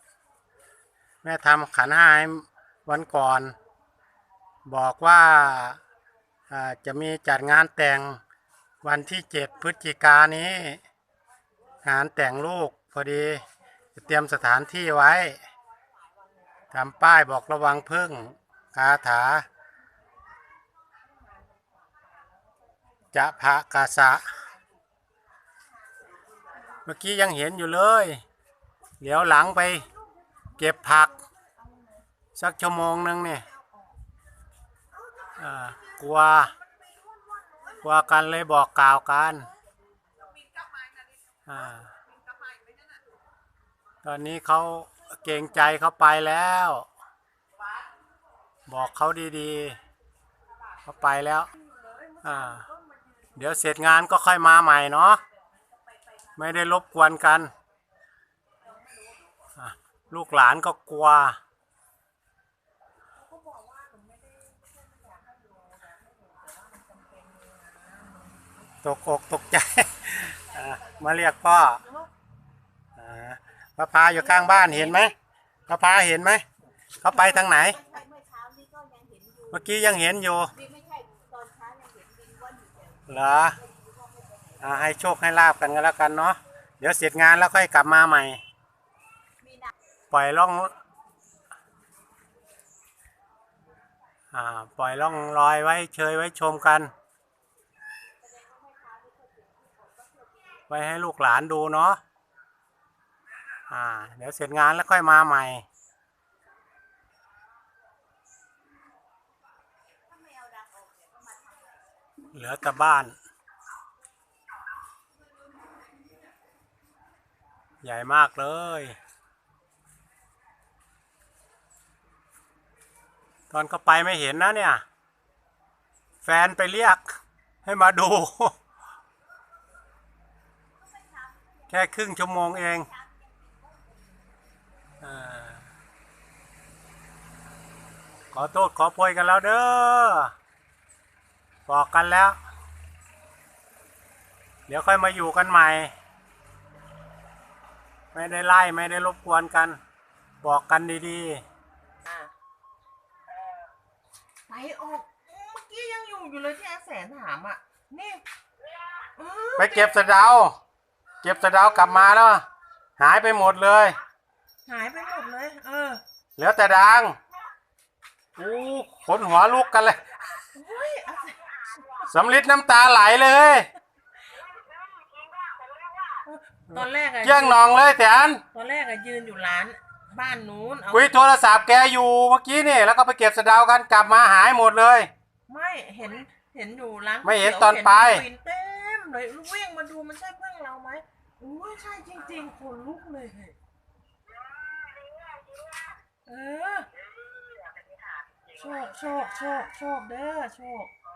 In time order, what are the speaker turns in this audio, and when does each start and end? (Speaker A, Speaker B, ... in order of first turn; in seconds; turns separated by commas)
Speaker A: 1.2-3.5, Speaker A: 4.7-5.8, Speaker A: 6.5-8.2, Speaker A: 8.8-10.8, Speaker A: 11.8-13.4, Speaker A: 13.9-15.4, Speaker A: 16.7-19.4, Speaker B: 21.2-22.4, Speaker A: 23.1-24.3, Speaker A: 26.8-28.2, Speaker A: 29.0-29.9, Speaker B: 29.8-31.9, Speaker A: 30.6-31.1, Speaker A: 32.3-33.5, Speaker A: 35.4-36.5, Speaker B: 36.9-37.8, Speaker A: 37.8-39.5, Speaker A: 41.5-41.9, Speaker A: 44.0-46.9, Speaker A: 48.7-49.8, Speaker A: 50.8-51.5, Speaker B: 51.6-53.5, Speaker A: 52.2-52.7, Speaker A: 53.4-55.2, Speaker A: 56.4-57.5, Speaker A: 59.6-61.4, Speaker B: 63.2-68.5, Speaker A: 68.8-71.8, Speaker A: 73.0-75.1, Speaker B: 74.2-75.0, Speaker A: 75.7-76.4, Speaker A: 77.0-77.8, Speaker C: 77.2-79.6, Speaker A: 79.5-80.5, Speaker C: 80.6-83.1, Speaker A: 83.1-83.6, Speaker C: 83.6-84.6, Speaker A: 84.6-88.4, Speaker C: 89.4-89.7, Speaker A: 90.1-90.7, Speaker A: 94.3-96.9, Speaker C: 98.2-100.6, Speaker A: 100.7-102.0, Speaker A: 103.7-105.6, Speaker C: 110.1-111.8, Speaker A: 112.3-113.2, Speaker A: 117.8-119.0, Speaker A: 123.5-124.8, Speaker A: 126.2-128.6, Speaker C: 130.9-132.1, Speaker A: 131.7-132.9, Speaker C: 132.7-133.9, Speaker A: 135.0-135.6, Speaker A: 138.3-140.3, Speaker A: 141.7-142.4, Speaker A: 144.7-145.9, Speaker A: 148.1-149.8, Speaker A: 150.4-151.4, Speaker B: 152.0-152.3, Speaker B: 154.5-158.2, Speaker B: 159.2-160.1, Speaker A: 159.6-160.5, Speaker A: 161.2-162.4, Speaker A: 163.0-164.0, Speaker B: 164.7-166.0, Speaker A: 166.4-167.2, Speaker A: 168.3-170.0, Speaker B: 170.5-172.0, Speaker A: 172.1-173.7, Speaker B: 176.2-177.7, Speaker A: 176.7-178.4, Speaker B: 178.5-181.1, Speaker A: 180.9-185.1, Speaker B: 185.5-193.5, Speaker A: 187.2-188.2, Speaker B: 196.2-196.9, Speaker B: 198.5-200.9